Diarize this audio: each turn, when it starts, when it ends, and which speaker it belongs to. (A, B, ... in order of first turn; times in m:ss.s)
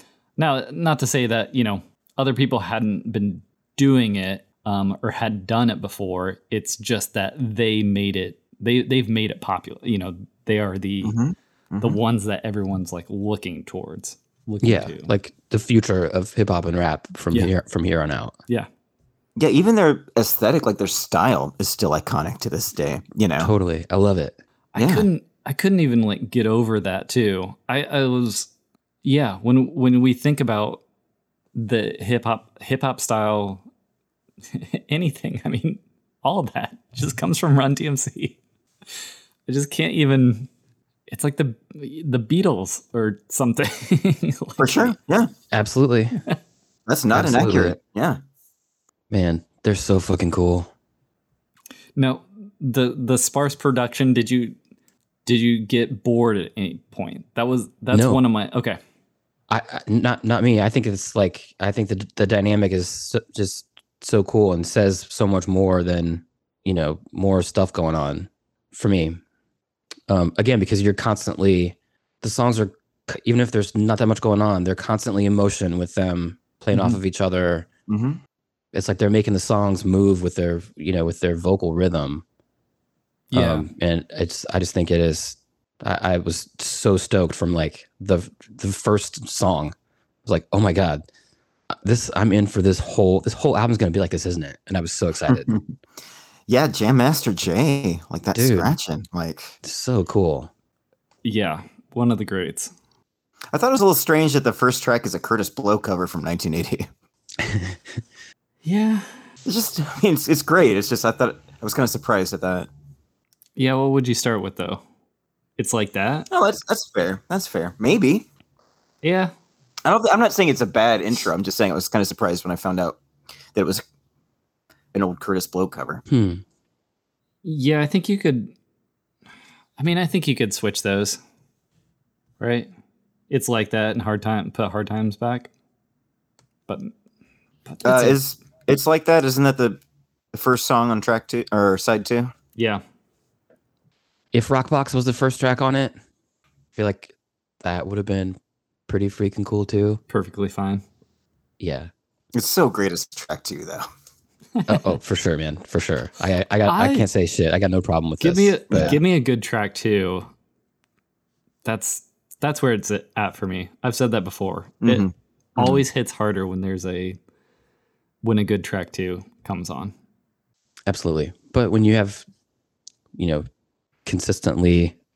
0:00.4-0:11.2 A
0:11.0-0:12.0 B
0:11.8-0:15.1 A
0:14.6-0:18.3 C
0:19.4-0:23.5 B
0:23.4-0:24.4 C
0:24.7-0:28.5 A
0:24.8-0:25.1 B
0:29.0-0:30.8 A
0:31.6-0:33.6 A
0:34.5-0:38.4 A
0:39.5-0:40.5 A
0:41.1-0:45.0 A
0:44.6-0:45.3 B
0:45.5-0:46.2 C
0:46.9-0:48.2 B
0:47.1-0:47.8 C
0:49.1-0:50.7 C
0:52.0-0:54.6 A
0:55.3-0:58.8 A
0:57.9-0:58.2 C
0:59.5-1:09.2 C
1:10.1-1:17.7 C
1:17.9-1:18.2 B
1:18.7-1:22.2 C
1:23.3-1:23.7 A
1:23.3-1:29.7 C
1:30.3-1:31.0 C
1:31.7-1:35.5 C
1:35.3-1:35.6 B
1:36.5-1:39.6 B
1:38.3-1:38.7 C
1:39.6-1:40.5 C
1:41.2-1:42.7 A
1:43.5-1:46.9 B
1:47.4-1:48.0 C
1:48.6-1:49.2 A
1:49.5-1:52.7 B
1:53.6-1:54.8 A
1:55.6-1:56.3 A
1:56.3-1:58.3 B
1:59.0-1:59.3 A
1:59.8-2:03.0 B
2:03.6-2:03.8 B
2:04.9-2:06.0 B
2:06.1-2:06.4 C
2:07.4-2:08.5 A
2:09.8-2:11.2 A
2:12.4-2:12.7 A
2:13.3-2:15.5 A
2:17.7-2:18.2 A
2:17.8-2:19.8 B
2:20.3-2:22.3 B
2:22.6-2:22.8 A
2:24.3-2:25.9 C
2:26.8-2:30.0 C
2:30.1-2:30.8 A
2:31.6-2:31.9 C
2:32.3-2:33.9 B
2:34.6-2:34.8 A
2:34.7-2:39.0 C
2:36.7-2:37.1 A
2:38.2-2:40.3 A
2:38.7-2:39.0 B
2:41.6-2:47.2 A
2:44.8-2:45.8 B
2:48.2-2:49.9 A
2:50.9-2:52.2 C
2:53.2-2:53.4 C
2:54.0-2:55.0 C